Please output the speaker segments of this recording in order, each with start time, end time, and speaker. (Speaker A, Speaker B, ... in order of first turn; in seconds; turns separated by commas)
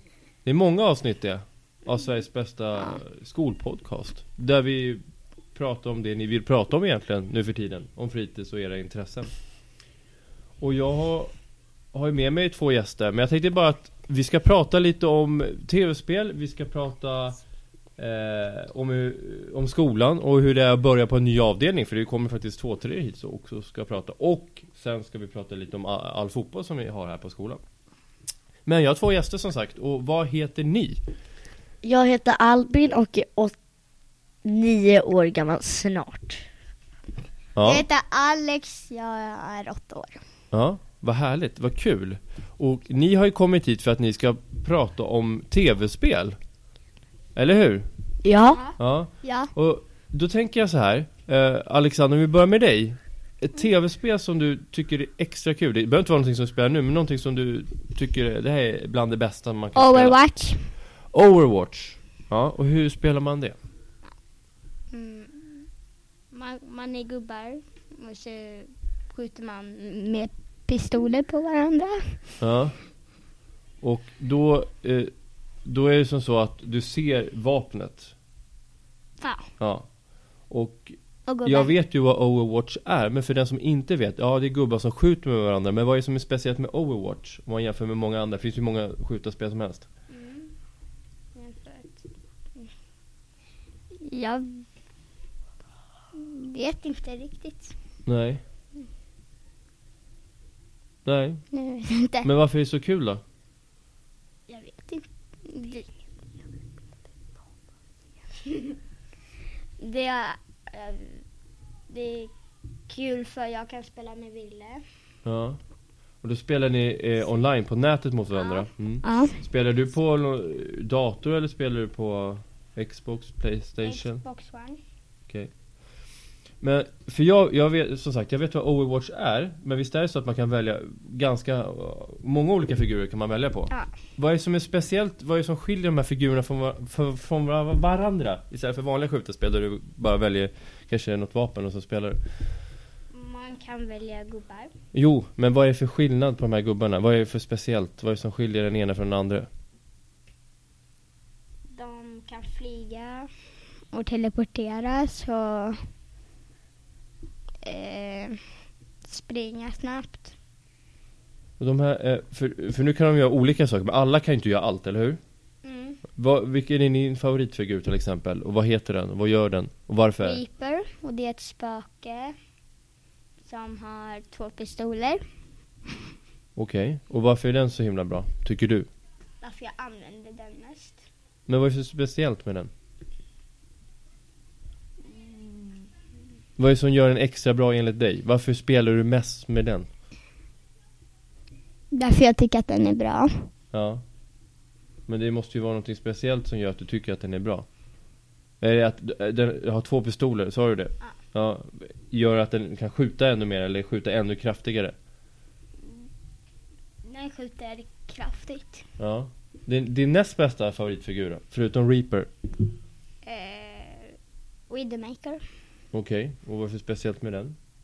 Speaker A: 0.4-5.0, Speaker A: 5.5-9.3, Speaker A: 10.6-11.3, Speaker A: 11.9-17.4, Speaker A: 18.0-27.6, Speaker A: 28.6-31.0, Speaker B: 31.8-33.5, Speaker B: 34.4-36.4, Speaker A: 37.5-37.8, Speaker C: 37.6-40.2, Speaker A: 40.5-46.4, Speaker A: 47.3-47.9, Speaker B: 48.2-48.6, Speaker C: 48.5-49.5, Speaker A: 48.8-60.2, Speaker C: 59.7-60.7, Speaker A: 61.1-63.5, Speaker C: 64.9-65.7, Speaker C: 66.3-72.2, Speaker A: 72.4-72.8, Speaker A: 73.8-75.1, Speaker A: 75.6-78.1, Speaker C: 79.2-79.5, Speaker A: 79.6-79.9, Speaker A: 80.4-89.8, Speaker C: 81.3-81.7, Speaker C: 90.1-90.5, Speaker C: 91.3-92.0, Speaker C: 94.0-94.6, Speaker C: 96.1-97.7, Speaker A: 98.0-98.4, Speaker A: 101.0-101.4, Speaker C: 101.5-102.3, Speaker A: 102.2-103.2, Speaker C: 104.5-105.9, Speaker C: 109.8-111.2, Speaker C: 111.9-112.3, Speaker C: 112.9-114.8, Speaker A: 115.2-115.6, Speaker A: 116.2-124.2, Speaker C: 118.3-119.3, Speaker C: 123.8-124.8, Speaker A: 126.6-142.2, Speaker C: 143.1-144.7, Speaker A: 144.9-149.5, Speaker C: 151.7-153.3, Speaker C: 153.9-155.9, Speaker C: 157.6-158.4, Speaker C: 159.0-160.3, Speaker A: 161.6-165.2, Speaker C: 165.6-166.0, Speaker A: 166.2-170.4, Speaker C: 170.2-172.3, Speaker C: 173.4-175.2, Speaker A: 176.6-178.9, Speaker C: 179.4-181.0, Speaker A: 181.5-182.7, Speaker C: 185.1-185.9, Speaker A: 186.6-189.9, Speaker C: 191.9-193.5, Speaker A: 193.7-194.0, Speaker A: 195.1-197.7, Speaker A: 198.6-204.9, Speaker C: 207.0-208.8, Speaker A: 209.0-212.3, Speaker C: 213.2-214.2, Speaker C: 214.7-215.4, Speaker A: 215.9-217.6